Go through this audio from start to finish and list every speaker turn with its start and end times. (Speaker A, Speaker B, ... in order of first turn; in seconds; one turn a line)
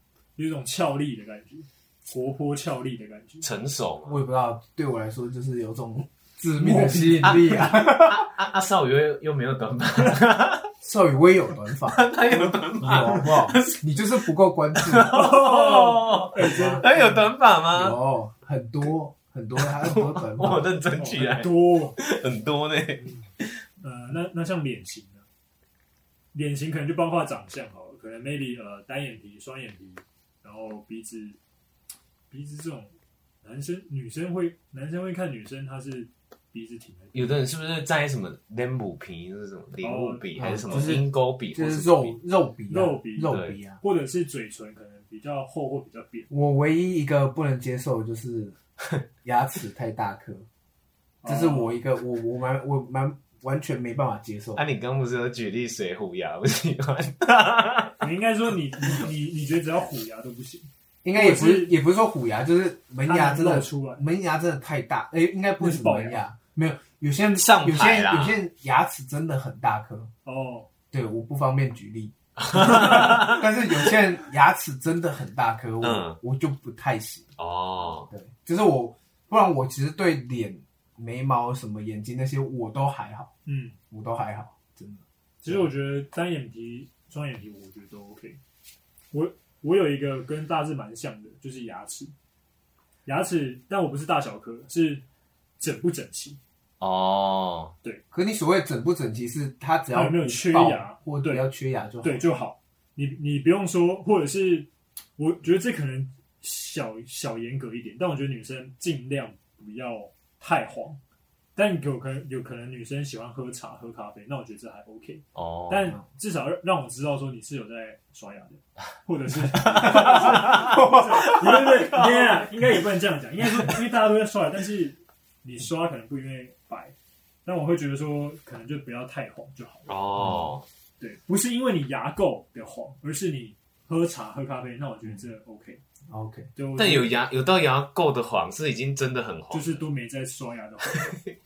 Speaker A: 0.3-3.5
Speaker B: 3.4-4.2
Speaker C: 4.1-8.3
Speaker A: 6.5-7.5
Speaker B: 7.2-10.7
Speaker C: 10.8-12.1
Speaker B: 11.9-13.8
Speaker C: 12.8-15.2
Speaker B: 14.7-18.0
Speaker A: 15.1-17.2
Speaker C: 16.4-16.8
Speaker C: 17.7-20.7
Speaker B: 19.6-23.6
Speaker A: 20.9-22.0
Speaker A: 23.8-25.3
Speaker A: 26.3-31.4
Speaker A: 32.3-37.4
Speaker B: 37.1-42.2
Speaker A: 39.8-40.9
Speaker C: 40.4-43.8
Speaker A: 42.7-46.3
Speaker B: 43.2-43.6
Speaker C: 46.3-48.5
Speaker C: 49.2-50.5
Speaker A: 51.2-51.8
Speaker C: 51.2-54.6
Speaker B: 54.5-58.0
Speaker A: 58.0-61.8
Speaker C: 61.0-70.1
Speaker A: 63.0-64.0
Speaker A: 65.6-66.2
Speaker B: 67.3-68.4
Speaker A: 70.2-70.7
Speaker C: 70.9-77.3
Speaker B: 72.4-73.4
Speaker B: 75.8-76.2
Speaker B: 77.4-78.1
Speaker C: 78.1-83.3
Speaker A: 83.5-83.8
Speaker C: 83.9-85.7
Speaker A: 85.4-88.4
Speaker A: 89.1-92.1
Speaker A: 93.0-95.0
Speaker A: 95.6-96.4
Speaker B: 96.8-97.7
Speaker C: 98.1-102.2
Speaker A: 99.9-101.5
Speaker A: 102.0-111.0
Speaker A: 111.5-126.9
Speaker B: 115.3-116.0
Speaker B: 119.6-121.9
Speaker C: 120.7-120.9
Speaker A: 127.4-129.9
Speaker B: 129.9-130.6
Speaker A: 131.0-135.8
Speaker C: 136.1-136.5
Speaker A: 136.6-137.1
Speaker B: 136.8-139.8
Speaker A: 139.5-141.2
Speaker B: 140.9-141.3